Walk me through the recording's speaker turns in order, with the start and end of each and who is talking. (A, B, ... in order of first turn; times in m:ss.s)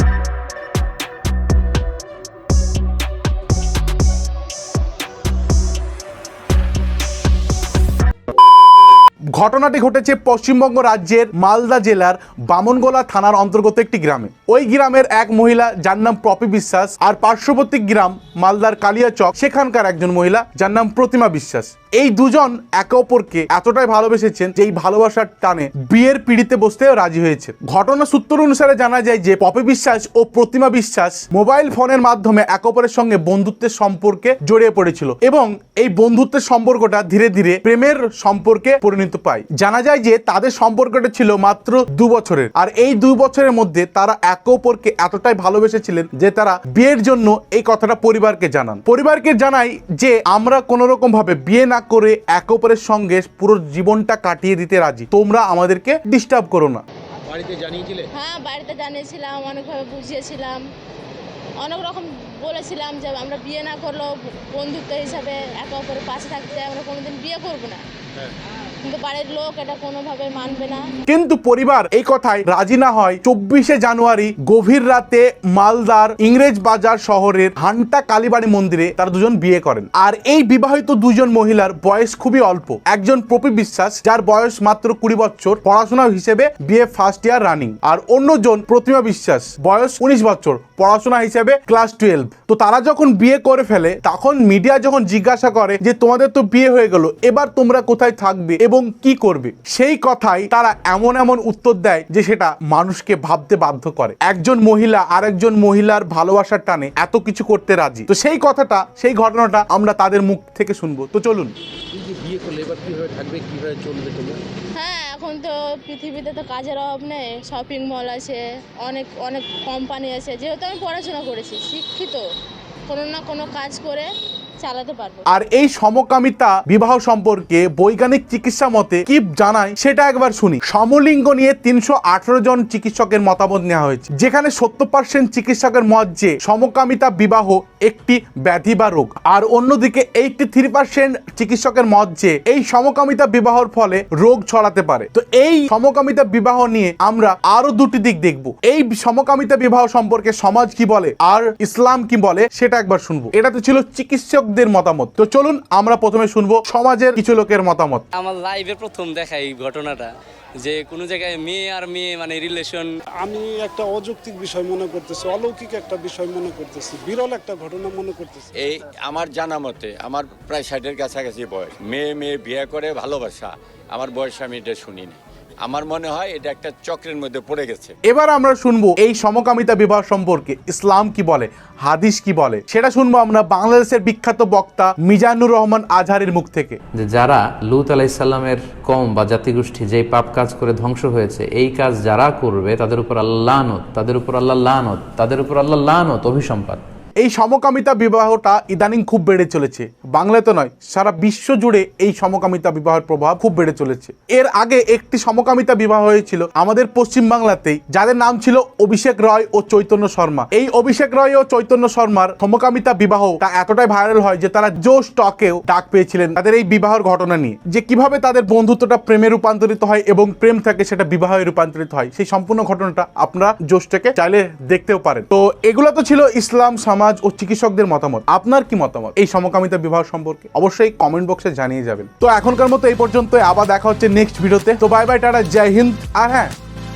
0:09.3-0:56.8 A
0:57.3-0:58.1 B
0:58.2-1:00.6 C
1:01.6-1:07.8 C
1:08.8-1:10.8 C
1:11.1-1:51.5 A
1:51.9-1:54.4 B
1:54.8-2:02.2 C
2:02.9-2:04.1 C
2:04.6-2:05.2 C
2:05.3-2:38.0 A
2:38.1-2:40.1 D
2:40.6-2:42.9 D
2:43.2-2:48.4 E
2:48.6-2:57.9 F
2:58.0-3:06.8 A
3:06.9-3:16.8 G
3:17.2-3:56.5 A